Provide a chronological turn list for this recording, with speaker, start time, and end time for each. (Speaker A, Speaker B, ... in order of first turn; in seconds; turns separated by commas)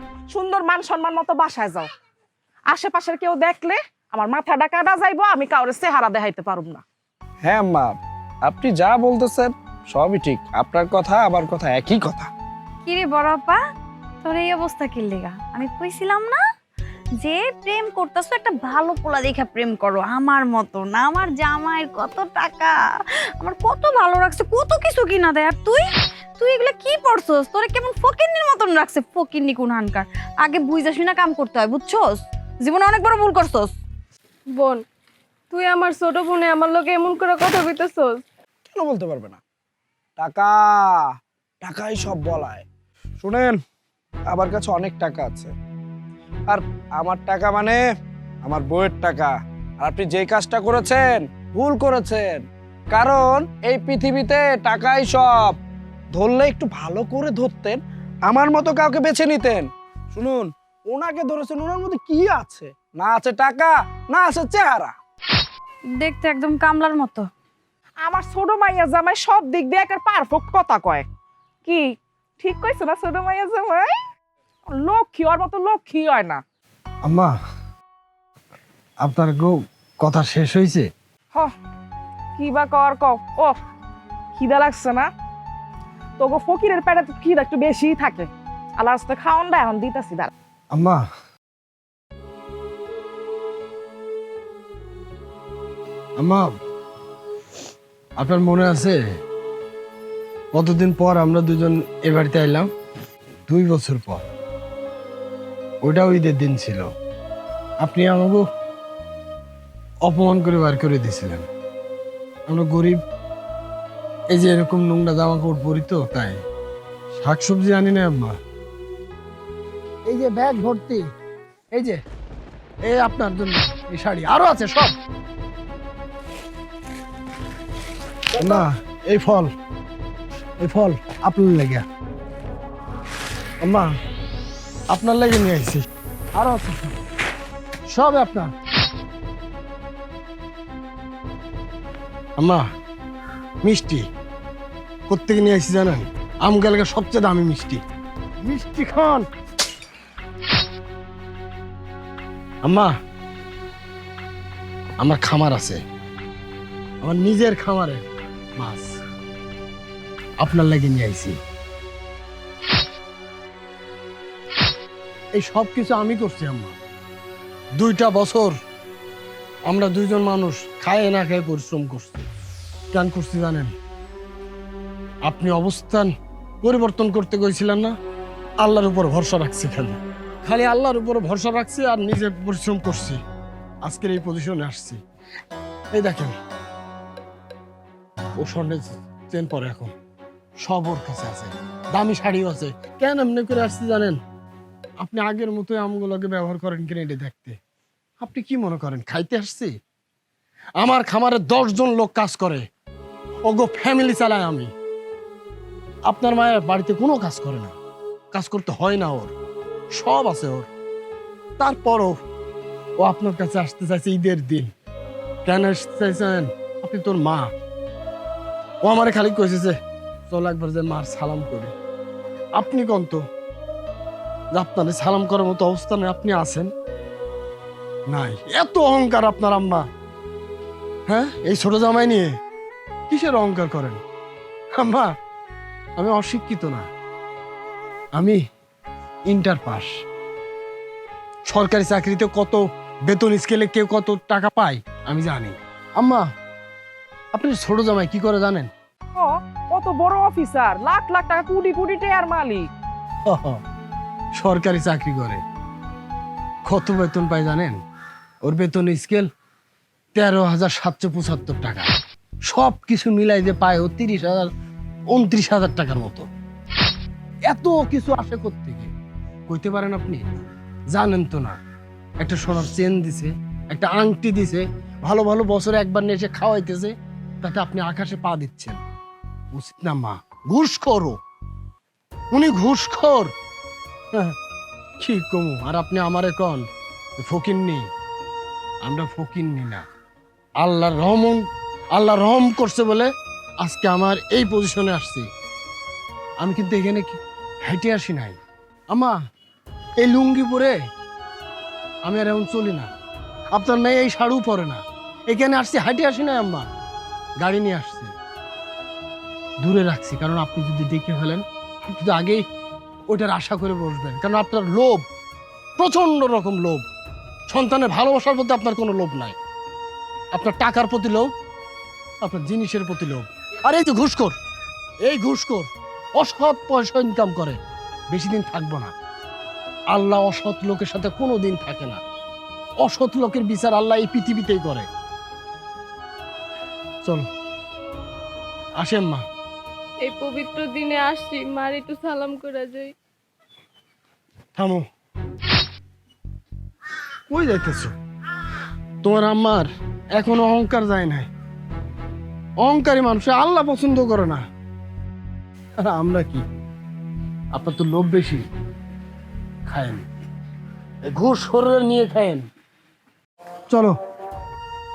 Speaker A: 0.3-1.9, Speaker A: 2.7-6.8, Speaker B: 7.5-12.3, Speaker C: 12.9-13.6, Speaker C: 14.2-16.4, Speaker C: 17.2-22.8, Speaker C: 23.4-25.8, Speaker C: 26.4-33.7, Speaker D: 34.5-34.8, Speaker D: 35.5-38.2, Speaker B: 38.7-39.4, Speaker B: 40.2-40.6, Speaker B: 41.6-42.7, Speaker B: 43.2-43.6, Speaker B: 44.3-45.5, Speaker B: 46.5-47.8, Speaker B: 48.4-55.5, Speaker B: 56.1-65.0, Speaker C: 66.0-67.3, Speaker A: 68.0-71.0, Speaker A: 72.4-73.9, Speaker A: 74.7-76.4, Speaker E: 77.0-77.3, Speaker E: 79.0-80.9, Speaker A: 82.4-83.6, Speaker A: 84.3-85.1, Speaker A: 86.2-88.3, Speaker A: 88.8-90.3, Speaker E: 90.7-91.0, Speaker E: 96.2-96.5, Speaker E: 98.2-99.0, Speaker E: 100.5-102.7, Speaker E: 103.5-104.2, Speaker E: 105.8-106.9, Speaker E: 107.8-108.5, Speaker E: 110.0-111.5, Speaker E: 112.5-113.0, Speaker E: 114.3-116.4, Speaker E: 117.2-118.4, Speaker E: 120.1-121.0, Speaker E: 122.8-125.0, Speaker E: 128.4-129.5, Speaker E: 130.6-131.8, Speaker E: 133.6-133.9, Speaker E: 134.9-135.8, Speaker E: 136.3-137.0, Speaker E: 137.9-138.5, Speaker E: 142.4-142.7, Speaker E: 143.6-144.1, Speaker E: 145.1-147.8, Speaker E: 148.4-149.3, Speaker E: 152.7-152.9, Speaker E: 155.0-155.8, Speaker E: 157.0-158.0, Speaker E: 158.6-159.0, Speaker E: 160.4-161.4, Speaker E: 165.4-166.8, Speaker E: 167.8-168.6, Speaker E: 169.7-172.3, Speaker E: 172.9-173.7, Speaker E: 175.3-176.1, Speaker E: 176.6-177.9, Speaker E: 178.6-183.2, Speaker E: 183.8-185.0, Speaker E: 185.9-186.3, Speaker E: 188.4-189.9, Speaker E: 190.6-194.2, Speaker E: 195.0-197.6, Speaker E: 198.2-199.7, Speaker E: 200.8-202.6, Speaker E: 203.4-204.7, Speaker E: 206.1-207.8, Speaker E: 208.3-209.3, Speaker E: 209.9-210.7, Speaker E: 211.6-212.2, Speaker E: 213.0-214.7, Speaker E: 215.5-217.5, Speaker E: 218.8-219.8, Speaker E: 220.3-221.7, Speaker E: 222.6-223.2, Speaker E: 224.5-226.7, Speaker E: 228.1-229.8, Speaker E: 231.1-232.3, Speaker E: 233.1-234.0, Speaker E: 234.8-235.1, Speaker E: 236.0-236.9, Speaker E: 239.3-239.9, Speaker E: 241.5-246.3, Speaker E: 247.3-248.7, Speaker A: 249.2-252.7, Speaker E: 253.3-253.6, Speaker E: 254.4-255.4, Speaker E: 256.6-257.8, Speaker E: 258.4-259.3, Speaker E: 260.1-261.9, Speaker E: 262.5-264.5, Speaker E: 265.1-266.3, Speaker E: 267.5-268.9, Speaker E: 269.5-270.2, Speaker E: 270.9-271.6, Speaker E: 272.2-278.8, Speaker E: 279.5-281.2, Speaker E: 282.3-283.3, Speaker E: 285.0-286.6, Speaker E: 287.2-287.9, Speaker E: 288.8-289.9, Speaker E: 290.6-293.1, Speaker E: 293.6-295.3, Speaker E: 296.4-298.4, Speaker E: 300.0-300.8, Speaker E: 302.1-302.9, Speaker E: 303.5-306.7, Speaker E: 307.4-308.1, Speaker E: 309.6-312.4, Speaker E: 313.1-315.1, Speaker E: 315.8-316.9, Speaker E: 317.5-319.4, Speaker E: 320.4-321.3, Speaker E: 322.2-324.4, Speaker E: 325.1-327.6, Speaker E: 328.1-328.9, Speaker E: 329.9-332.0, Speaker E: 332.8-334.9, Speaker E: 338.8-339.2, Speaker D: 340.0-342.9, Speaker E: 344.6-344.9, Speaker E: 347.3-347.9, Speaker E: 349.0-351.3, Speaker E: 352.6-354.4, Speaker E: 355.8-356.4, Speaker E: 357.5-358.4, Speaker E: 359.7-360.1, Speaker E: 361.1-362.4, Speaker E: 363.7-363.9